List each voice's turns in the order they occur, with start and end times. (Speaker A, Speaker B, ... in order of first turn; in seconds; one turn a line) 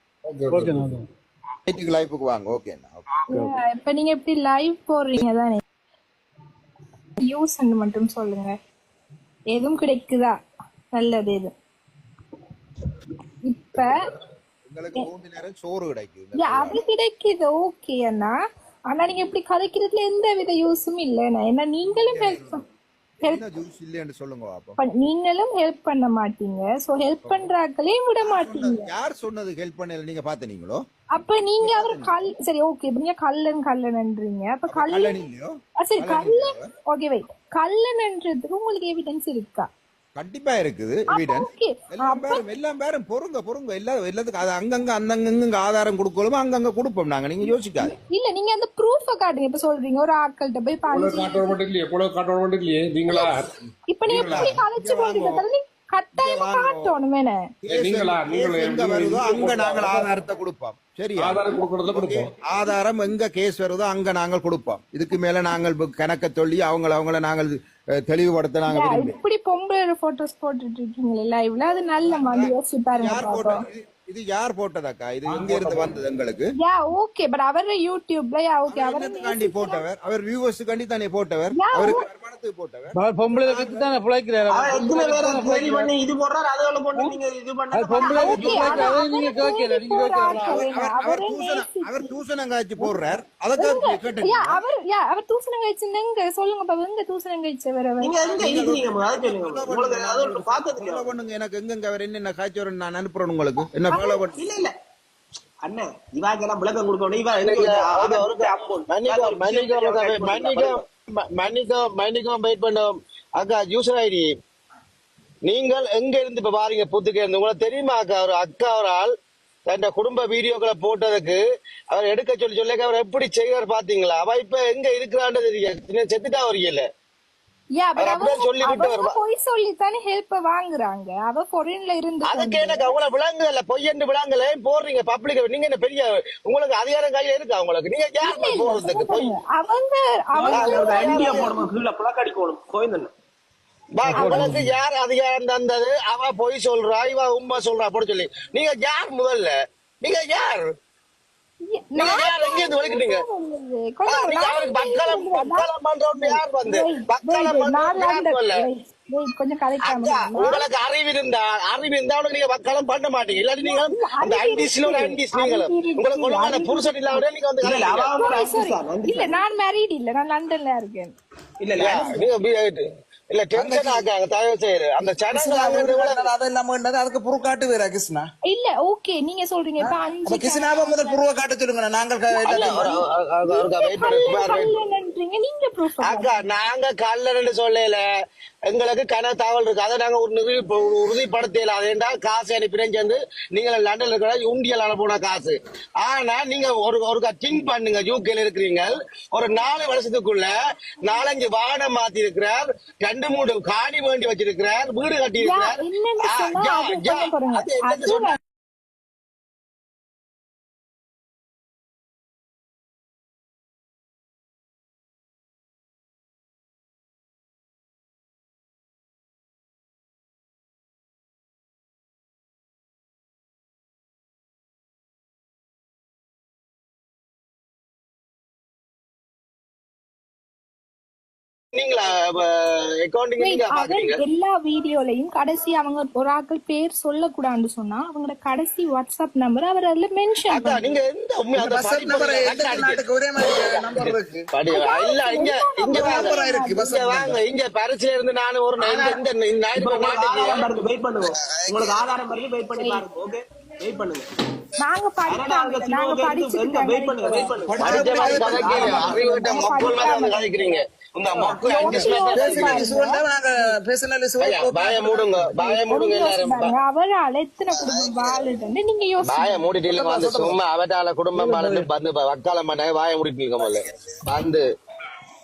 Speaker A: 0.3-0.9
Speaker B: 0.5-1.0
Speaker A: 1.7-3.0
Speaker C: 3.3-5.6
Speaker C: 7.2-8.5
Speaker C: 9.5-10.4
Speaker C: 10.9-11.5
Speaker C: 13.4-14.0
Speaker A: 14.7-16.8
Speaker C: 16.4-18.3
Speaker C: 18.9-22.6
Speaker A: 21.9-22.6
Speaker A: 23.2-24.8
Speaker C: 24.8-28.8
Speaker A: 27.2-27.5
Speaker A: 28.2-30.8
Speaker C: 31.1-35.2
Speaker A: 31.6-32.1
Speaker A: 34.7-36.6
Speaker C: 35.8-39.7
Speaker A: 40.1-47.9
Speaker C: 41.1-42.4
Speaker C: 47.8-51.6
Speaker D: 50.9-53.5
Speaker C: 53.9-57.4
Speaker D: 54.1-54.6
Speaker A: 54.2-55.4
Speaker A: 56.1-57.0
Speaker A: 57.6-69.2
Speaker D: 57.7-60.1
Speaker D: 61.1-62.3
Speaker C: 68.7-73.6
Speaker A: 72.0-76.5
Speaker E: 75.5-75.8
Speaker C: 76.6-79.8
Speaker A: 78.7-84.0
Speaker C: 81.5-82.0
Speaker B: 82.9-85.9
Speaker E: 84.5-89.0
Speaker B: 86.9-87.2
Speaker B: 87.7-90.6
Speaker C: 88.0-92.1
Speaker A: 90.2-94.6
Speaker C: 93.6-98.1
Speaker E: 98.0-101.1
Speaker A: 98.3-104.4
Speaker C: 103.9-104.2
Speaker E: 104.3-104.7
Speaker E: 105.6-110.8
Speaker F: 107.4-114.3
Speaker F: 115.4-119.1
Speaker F: 119.7-126.8
Speaker C: 127.8-132.9
Speaker F: 128.0-129.2
Speaker F: 132.2-139.3
Speaker C: 138.2-141.5
Speaker E: 140.3-143.1
Speaker F: 140.5-141.6
Speaker F: 143.9-150.7
Speaker B: 144.0-144.8
Speaker C: 144.1-144.6
Speaker C: 151.8-160.7
Speaker F: 152.0-153.2
Speaker F: 154.1-158.6
Speaker F: 159.8-168.1
Speaker C: 163.6-167.2
Speaker E: 167.6-169.4
Speaker C: 168.2-171.1
Speaker E: 171.6-172.3
Speaker F: 171.8-176.3
Speaker G: 173.5-174.1
Speaker G: 175.3-178.2
Speaker C: 178.5-181.2
Speaker G: 180.3-182.9
Speaker C: 182.3-186.4
Speaker F: 182.4-184.7
Speaker F: 186.0-188.0
Speaker F: 188.7-208.4
Speaker C: 205.4-208.4
Speaker F: 231.8-234.1
Speaker C: 233.4-240.8
Speaker F: 240.5-250.7
Speaker G: 241.6-244.4
Speaker C: 244.7-246.9
Speaker G: 245.9-247.4
Speaker E: 248.8-249.2
Speaker E: 249.8-254.3
Speaker G: 251.5-251.9
Speaker C: 252.8-253.0
Speaker C: 254.8-260.7
Speaker E: 255.3-259.4
Speaker G: 257.7-259.1
Speaker F: 257.8-262.9
Speaker E: 261.3-261.9
Speaker C: 261.7-263.2
Speaker G: 262.3-265.3
Speaker F: 264.4-266.7
Speaker C: 265.6-269.7
Speaker F: 269.3-274.6
Speaker G: 269.9-270.6